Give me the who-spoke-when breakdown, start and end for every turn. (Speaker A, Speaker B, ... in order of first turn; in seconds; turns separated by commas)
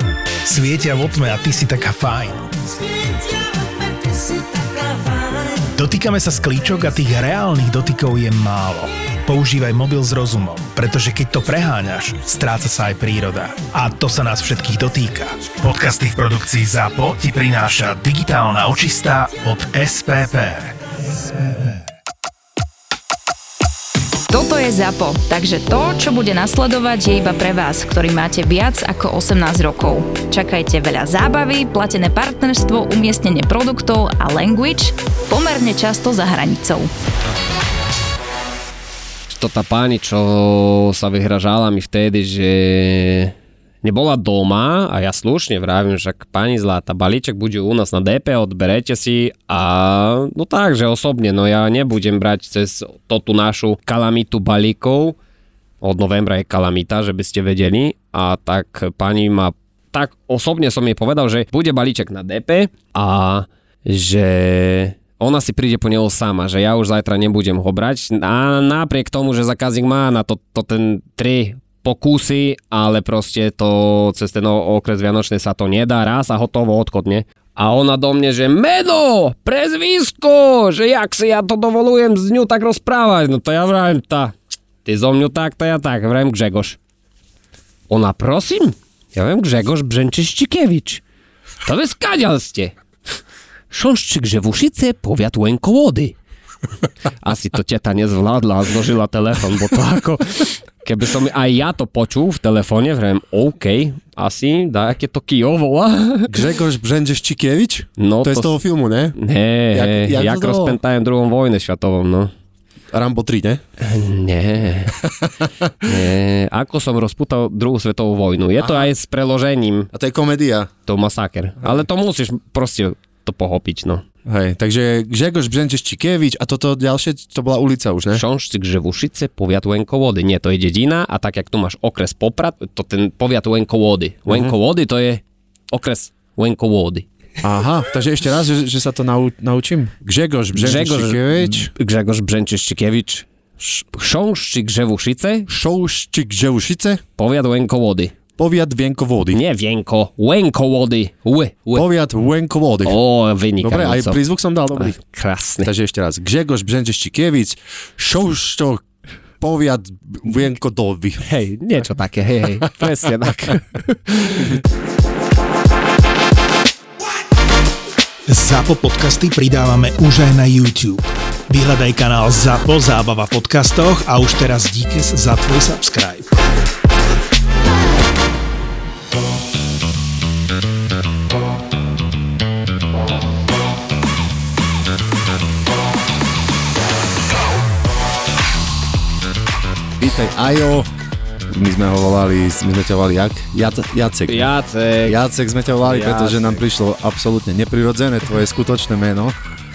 Speaker A: 0.4-2.8, Speaker A: 5.6-20.8, Speaker B: 24.3-36.9, Speaker C: 39.3-55.1, Speaker C: 55.8-84.3, Speaker C: 84.8-86.8, Speaker C: 87.9-91.0, Speaker C: 91.6-92.7, Speaker C: 93.7-96.2, Speaker C: 97.2-106.4, Speaker D: 106.3-109.2, Speaker C: 108.0-108.5, Speaker C: 109.2-112.3, Speaker D: 109.7-110.8, Speaker D: 112.9-113.6, Speaker C: 113.8-115.0, Speaker D: 115.0-115.3, Speaker C: 115.8-119.9, Speaker D: 118.6-118.9, Speaker D: 119.9-120.7, Speaker C: 120.9-124.0, Speaker D: 124.2-128.2, Speaker C: 128.1-137.1, Speaker D: 134.3-134.5, Speaker D: 137.4-141.7, Speaker C: 140.5-145.5, Speaker D: 145.5-147.0, Speaker C: 147.2-148.1, Speaker D: 148.4-149.4, Speaker C: 149.3-151.8, Speaker D: 151.7-153.0, Speaker C: 152.8-154.2, Speaker D: 153.6-154.9, Speaker C: 154.8-155.7, Speaker D: 155.6-158.8, Speaker D: 159.4-161.2, Speaker C: 161.2-164.6, Speaker A: 168.3-176.3, Speaker D: 190.0-190.9, Speaker D: 191.5-194.5, Speaker C: 194.2-195.2, Speaker D: 195.1-199.3, Speaker C: 195.8-196.6